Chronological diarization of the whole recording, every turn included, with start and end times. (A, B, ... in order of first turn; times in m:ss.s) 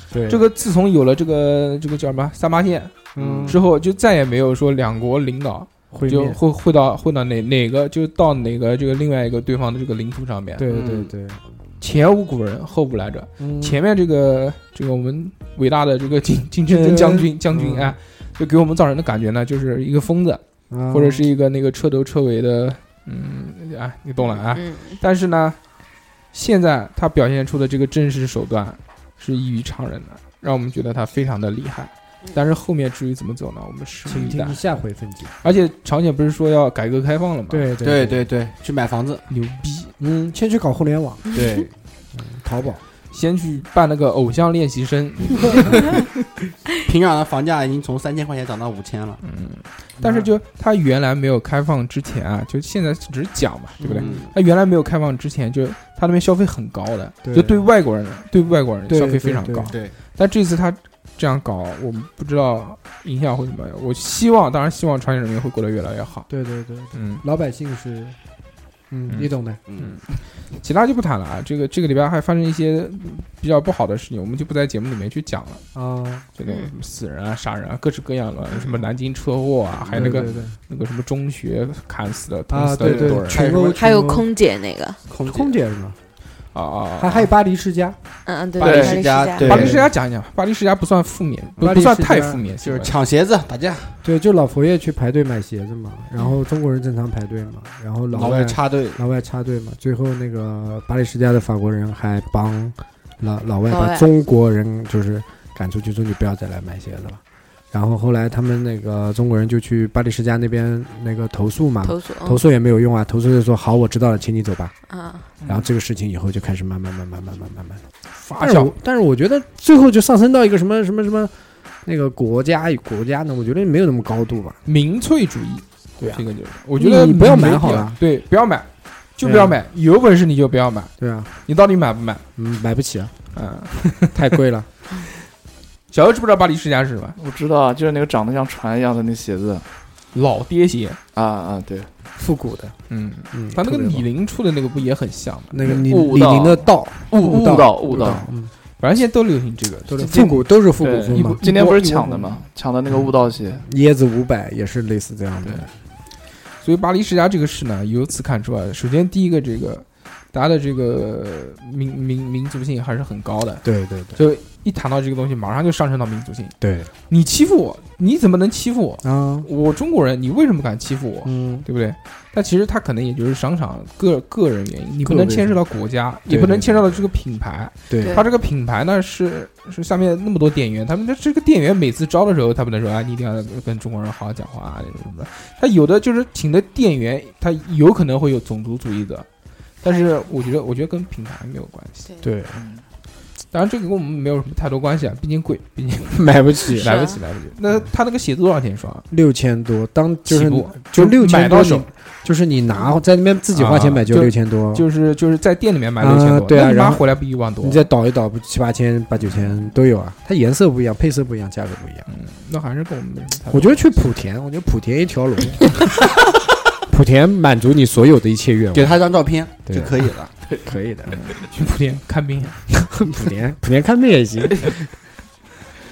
0:00.1-0:00.4 A
0:00.3-0:10.7 B
0:03.2-0:03.6 A
0:03.2-0:03.6 C
0:05.9-0:06.4 A
0:10.6-0:11.4 A
0:10.7-0:11.1 C
0:11.8-0:25.6 B
0:13.4-0:13.8 A
0:16.7-0:18.0 A
0:20.7-0:21.2 A
0:24.4-0:25.0 D
0:26.3-0:34.6 B
0:34.1-0:35.4 A
0:35.4-0:37.7 B
0:37.5-0:38.2 A
0:37.8-0:39.2 C
0:39.3-0:39.9 B
0:40.0-0:41.3 A
0:41.3-0:41.7 C
0:42.1-0:42.8 A
0:43.1-0:46.0 B
0:46.8-0:49.2 C
0:49.2-1:06.3 B
0:50.0-0:50.3 A
0:53.8-0:54.3 A
0:57.2-0:57.6 A
0:58.9-0:59.8 A
1:06.3-1:08.2 A
1:07.0-1:07.2 B
1:08.9-1:09.6 A
1:09.1-1:10.0 B
1:09.7-1:10.0 C
1:10.6-1:15.6 B
1:15.7-1:16.2 A
1:16.4-1:23.5 B
1:19.8-1:20.5 C
1:19.9-1:20.5 A
1:22.5-1:24.3 A
1:22.8-1:23.8 C
1:23.8-1:25.0 D
1:25.1-1:25.6 C
1:25.2-1:26.0 A
1:26.5-1:27.3 B
1:27.0-1:28.0 A
1:28.2-1:29.7 D
1:28.6-1:29.9 C
1:28.6-1:29.0 E
1:29.4-1:33.0 B
1:29.5-1:29.9 A
1:31.6-1:32.4 A
1:32.5-1:34.0 C
1:34.0-1:47.2 A
1:38.1-1:39.0 C
1:43.7-1:44.1 D
1:47.7-1:54.7 A
1:51.8-1:52.4 D
1:54.9-1:55.3 D
1:55.4-1:57.8 A
1:58.2-1:58.7 B
1:58.4-2:01.3 A
2:01.8-2:04.6 A
2:04.6-2:10.9 B
2:06.0-2:06.2 A
2:06.8-2:08.0 A
2:09.2-2:09.6 A
2:11.0-2:11.3 A
2:11.5-2:12.2 B
2:12.4-2:13.1 A
2:13.3-2:14.4 B
2:14.1-2:14.7 A
2:15.9-2:17.2 B
2:17.2-2:19.6 E
2:20.1-2:21.0 B
2:21.1-2:21.9 E
2:22.2-2:22.8 A
2:22.9-2:25.8 B
2:23.3-2:24.0 A
2:25.5-2:28.5 A
2:25.7-2:28.3 E
2:28.8-2:30.4 B
2:29.9-2:32.4 A
2:30.0-2:33.6 E
2:31.1-2:31.9 B
2:33.6-2:35.7 A
2:36.6-2:46.5 B
2:43.6-2:44.2 A
2:46.6-2:46.9 A
2:47.1-3:09.3 B
2:49.0-2:49.5 A
2:51.2-2:51.6 A
2:55.0-2:55.6 A
2:56.3-2:56.9 A
2:57.9-2:58.2 A
2:58.0-2:58.2 D
3:09.8-3:12.1 B
3:12.2-3:12.6 A
3:12.6-3:12.8 E
3:13.5-3:19.1 B
3:16.1-3:16.9 A
3:16.8-3:17.2 D
3:19.1-3:24.8 A
3:20.3-3:21.9 B
3:23.5-3:27.9 B
3:26.0-3:27.0 A
3:27.6-3:32.1 A
3:32.1-3:33.9 B
3:33.5-3:35.9 A
3:36.9-3:39.0 A
3:38.7-3:40.3 C
3:39.7-3:40.1 A
3:40.6-3:41.3 A
3:41.1-3:42.6 B
3:42.7-3:44.8 A